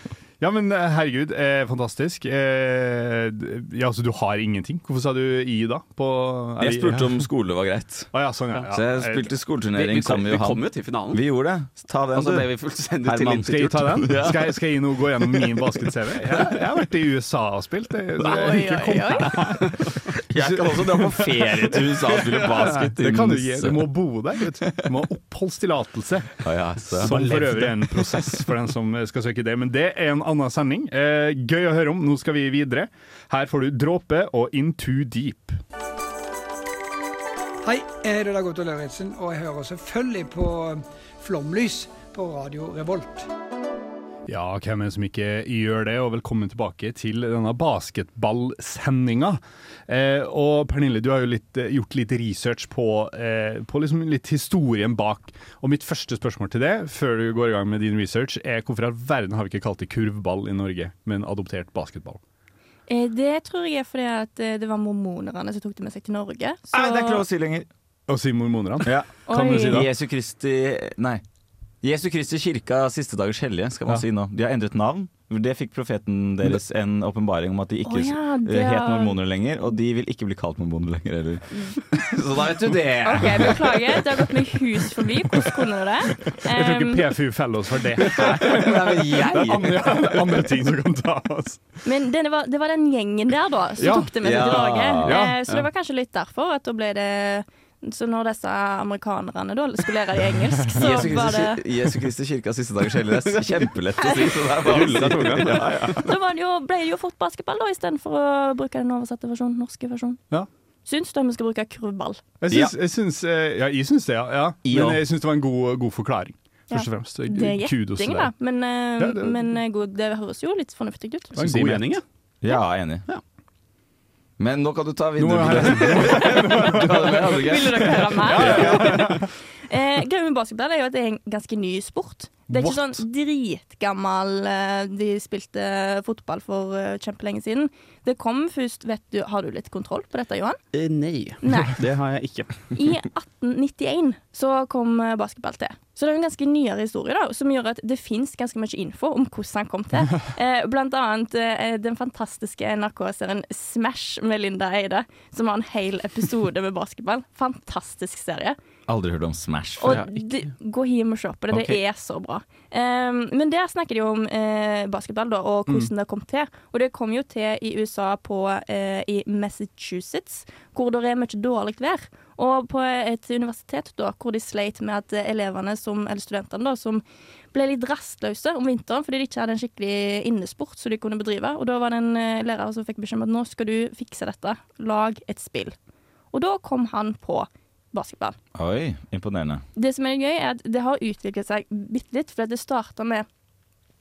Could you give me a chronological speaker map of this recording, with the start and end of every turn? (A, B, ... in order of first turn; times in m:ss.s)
0:00.4-0:07.3 A
0:06.6-0:08.1 B
0:08.1-0:09.3 A
0:08.7-0:12.5 B
0:09.7-0:11.2 C
0:12.1-0:14.3 C
0:13.0-0:14.6 B
0:13.4-0:35.6 A
0:18.2-0:18.4 B
0:18.2-0:19.3 D
0:20.3-0:24.7 B
0:26.4-0:28.4 B
0:27.0-0:27.7 C
0:37.6-0:43.3 E
0:44.3-1:02.2 A
1:02.9-1:07.2 D
1:06.7-1:07.7 B
1:08.1-1:09.9 A
1:08.8-1:11.2 B
1:09.3-1:09.8 D
1:11.8-1:24.0 B
1:17.8-1:19.2 D
1:23.0-1:27.0 D
1:26.5-1:31.7 A
1:28.0-1:30.5 B
1:31.8-1:41.6 D
1:33.8-1:35.4 A
1:34.2-1:35.2 B
1:40.8-1:41.1 A
1:40.8-1:46.0 B
1:44.6-1:46.0 A
1:44.8-1:45.4 C
1:45.9-1:50.2 D
1:50.9-1:52.2 D
1:52.4-1:58.3 A
1:52.5-1:52.8 B
1:54.6-1:55.0 B
1:56.7-2:01.3 D
1:59.0-1:59.5 A
2:01.4-2:02.0 C
2:01.4-2:01.9 A
2:02.4-2:03.0 B
2:04.4-2:08.9 B
2:05.2-2:07.4 A
2:07.3-2:20.6 D
2:08.2-2:09.3 A
2:12.5-2:13.0 A
2:20.7-2:22.7 C
2:21.4-2:21.8 D
2:22.7-2:38.6 D
2:38.9-2:40.0 B
2:39.8-3:05.8 D
2:41.5-2:41.8 C
3:06.3-3:08.4 D
3:08.6-3:09.6 B
3:09.8-3:13.3 D